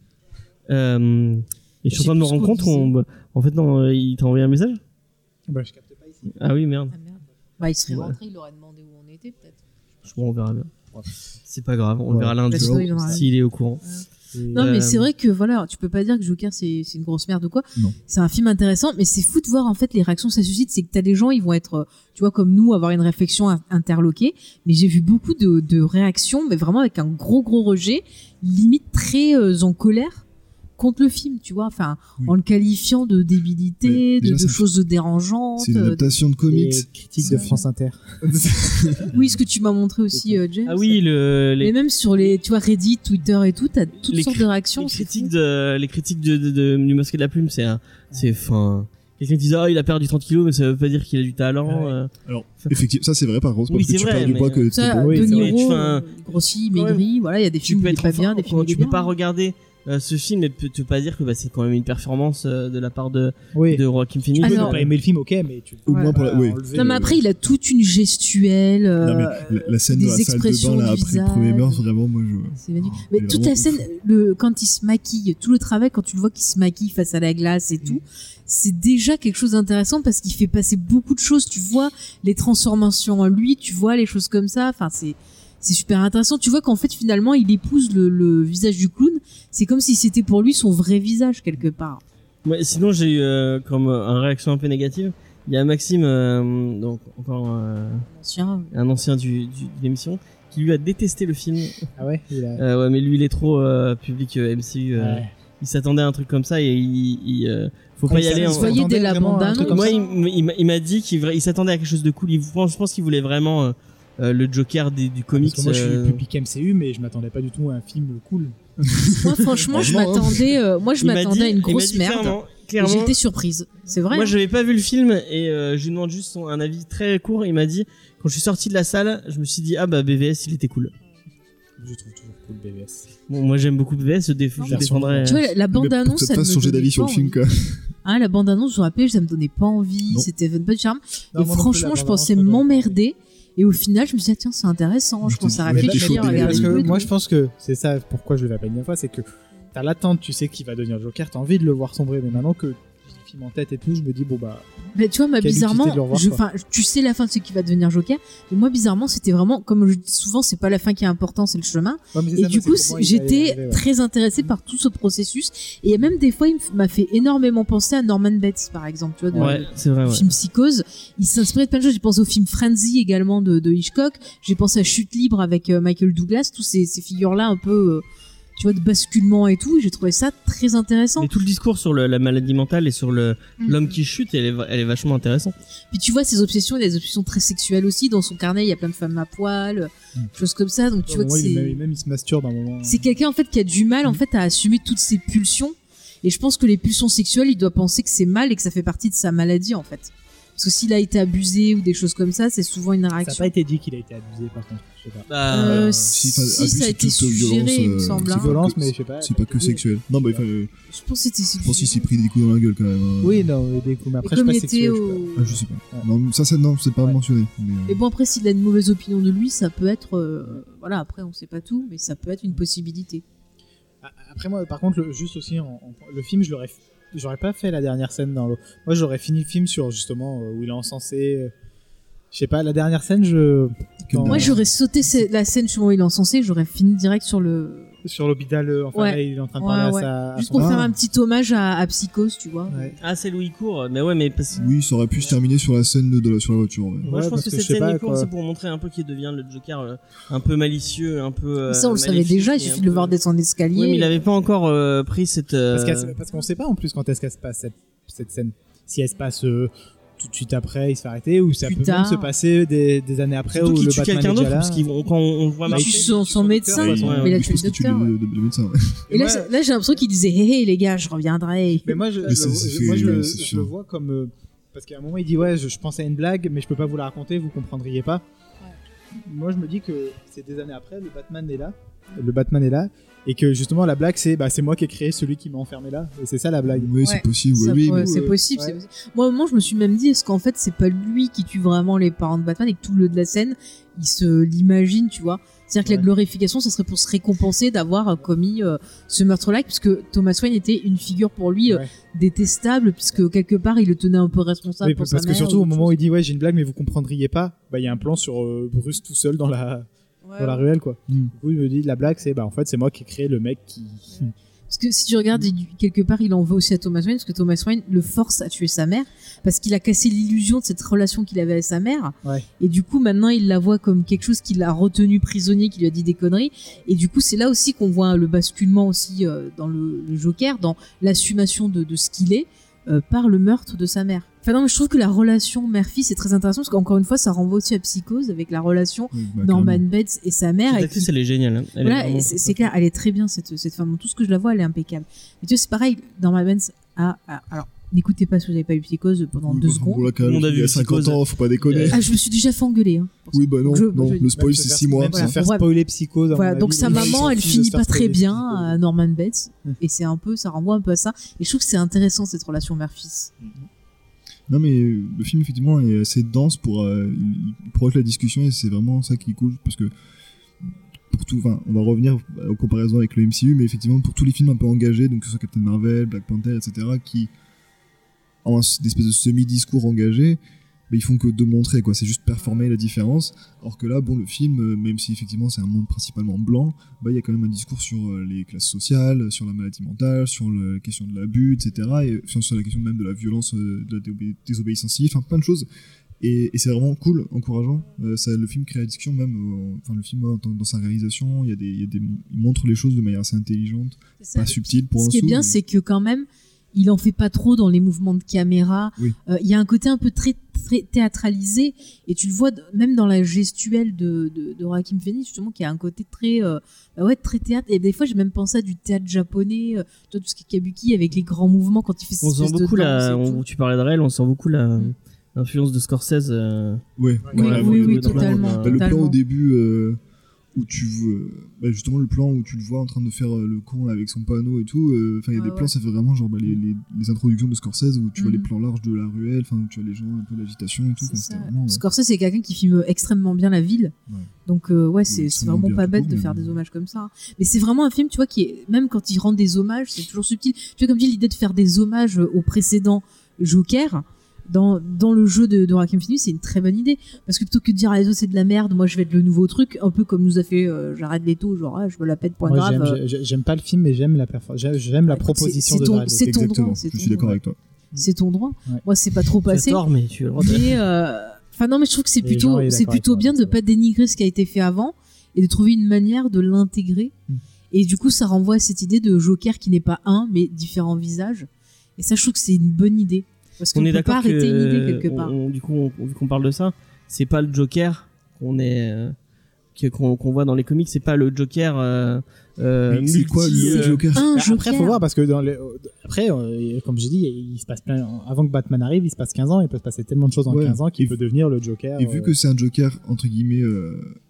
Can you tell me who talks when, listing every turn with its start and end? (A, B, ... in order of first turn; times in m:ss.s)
0:00.7-0:04.8 A
0:01.9-0:02.9 B
0:05.5-0:06.5 C
0:06.3-0:06.9 A
0:06.9-0:09.6 B
0:10.0-0:10.7 A
0:11.5-0:13.8 A
0:12.1-0:12.4 C
0:12.5-0:13.0 D
0:12.5-0:13.2 B
0:14.3-0:14.7 C
0:14.5-0:15.1 A
0:14.5-0:30.2 B
0:30.8-0:36.0 B
0:33.8-0:34.6 D
0:35.6-0:36.9 D
0:36.5-0:39.1 C
0:37.2-0:37.6 B
0:38.2-0:39.1 D
0:39.1-0:41.0 B
0:40.1-0:40.4 C
0:40.7-0:42.3 A
0:41.6-0:45.3 B
0:44.0-0:52.1 A
0:51.6-0:52.0 C
0:52.2-0:55.5 D
0:53.7-0:57.0 A
0:54.7-0:59.1 B
0:55.0-0:55.5 C
0:57.6-1:04.9 A
1:03.5-1:03.8 C
1:04.4-1:07.2 C
1:04.4-1:04.8 B
1:05.8-1:07.2 D
1:05.9-1:06.1 B
1:06.7-1:11.8 B
1:09.0-1:13.8 D
1:12.6-1:32.0 B
1:32.4-1:38.0 A
1:38.1-1:38.7 B
1:38.7-1:41.9 A
1:42.0-1:42.6 C
1:42.6-1:49.0 A
1:45.0-1:45.3 C
1:48.1-1:50.0 C
1:48.2-1:50.0 B
1:49.5-1:56.2 A
1:55.4-1:58.6 C
1:58.8-2:00.6 D
1:59.1-2:04.3 B
2:01.0-2:03.2 A
2:04.1-2:10.9 A
2:11.8-2:13.1 C
2:13.3-2:15.4 A
2:14.6-2:17.4 B
2:14.6-2:15.5 C
2:15.7-2:17.9 D
2:18.0-2:27.1 B
2:21.3-2:22.9 C
2:25.2-2:27.0 D
2:25.7-2:34.7 C
2:34.9-2:58.0 B
2:35.4-2:36.4 C
2:42.1-2:43.8 C
2:49.3-2:49.6 C
2:49.4-2:50.3 A
2:58.6-3:01.3 B
3:01.2-3:05.5 A
3:03.6-3:03.9 B
3:05.9-3:11.8 B
3:11.1-3:13.0 C
3:12.8-3:23.5 B
3:23.2-3:25.3 C
3:25.3-3:26.1 A
3:25.5-3:28.6 B
3:26.0-3:30.7 D
3:28.3-3:30.4 C
3:30.9-3:32.0 B
3:31.6-3:33.5 D
3:33.2-3:36.0 C
3:34.2-3:35.6 B
3:35.4-3:38.0 D
3:37.9-3:43.2 B
3:44.0-3:51.5 C
3:52.3-3:54.7 C
3:54.1-3:54.6 D
3:54.3-3:57.9 B
3:58.0-4:00.9 C
3:58.9-4:02.9 B
4:00.5-4:00.9 D
4:02.7-4:03.0 C
4:03.0-4:04.7 A
4:04.5-4:07.2 D
4:07.0-4:08.3 C
4:07.0-4:13.2 A
4:11.6-4:14.2 B
4:13.7-4:16.2 A
4:15.7-4:24.8 C
4:21.6-4:22.3 B
4:23.5-4:26.1 A
4:25.6-4:27.4 C
4:25.7-4:28.1 B
4:26.8-4:29.1 D
4:26.9-4:27.4 A
4:29.1-4:29.5 C
4:29.1-4:32.0 B
4:31.8-4:38.2 C
4:32.2-4:33.7 D
4:39.2-4:46.9 C
4:46.7-4:48.4 D
4:47.0-5:06.0 B
4:47.8-4:48.8 C
5:04.8-5:09.9 C
5:10.2-5:10.6 B
5:10.4-5:14.3 C
5:14.7-5:41.1 B
5:39.1-5:39.8 D
5:40.7-5:42.6 A
5:41.8-5:50.1 B
5:49.4-5:52.0 D
5:50.2-5:52.0 A
5:51.9-5:54.3 B
5:53.3-5:55.4 D
5:54.3-5:58.8 C
5:55.1-5:55.7 B
5:56.3-6:03.3 B
5:56.8-5:57.3 D
6:04.5-6:09.9 D
6:10.7-6:17.3 D
6:18.4-6:35.6 D
6:36.2-6:45.6 D
6:44.2-7:03.4 B
7:02.2-7:08.8 A
7:07.0-7:10.0 D
7:07.3-7:09.2 B
7:10.5-7:21.8 D
7:15.3-7:15.7 B
7:18.2-7:18.5 B
7:21.0-7:23.9 B
7:24.4-7:43.0 B
7:25.0-7:26.6 D
7:42.4-7:46.4 C
7:45.1-7:47.3 B
7:46.2-7:47.6 D
7:48.0-7:49.8 B
7:49.5-7:50.7 A
7:50.4-7:50.8 C
7:50.4-7:57.1 B
7:52.2-7:53.6 C
7:57.7-8:05.3 B
8:03.7-8:09.1 A
8:09.8-8:14.0 A
8:12.9-8:14.3 D
8:14.1-8:15.0 B
8:14.3-8:22.3 C
8:20.5-8:21.2 D
8:22.0-8:24.1 D